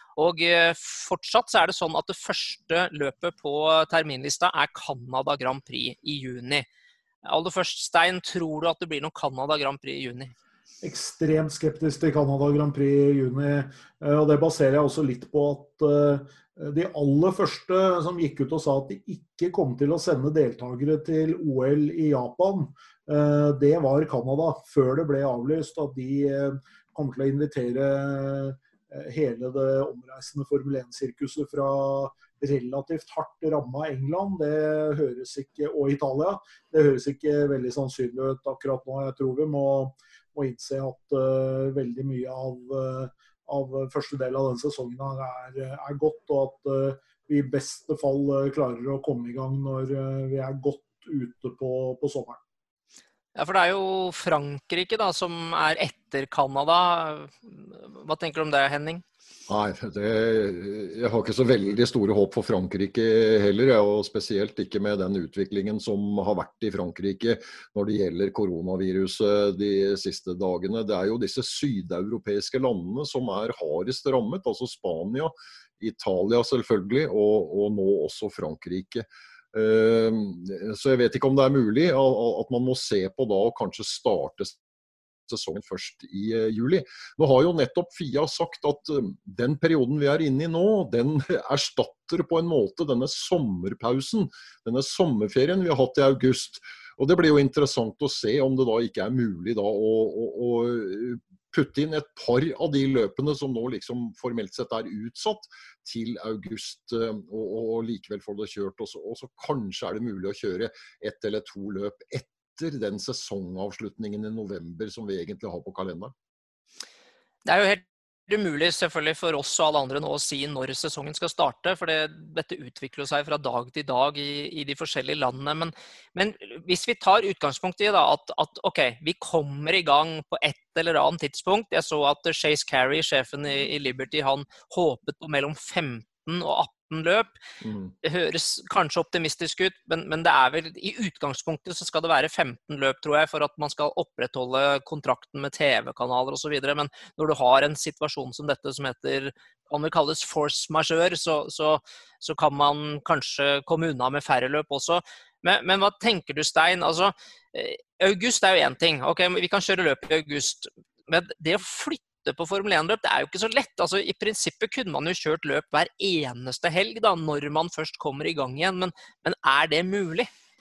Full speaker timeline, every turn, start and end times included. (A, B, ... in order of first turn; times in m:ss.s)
0:00.2-0:06.7 A
0:07.2-0:10.3 A
0:10.8-0:52.4 B
0:53.4-0:59.0 A
0:59.5-1:24.6 C
1:25.3-1:56.1 C
1:57.4-2:17.4 A
2:17.6-2:17.9 C
2:18.0-2:50.3 A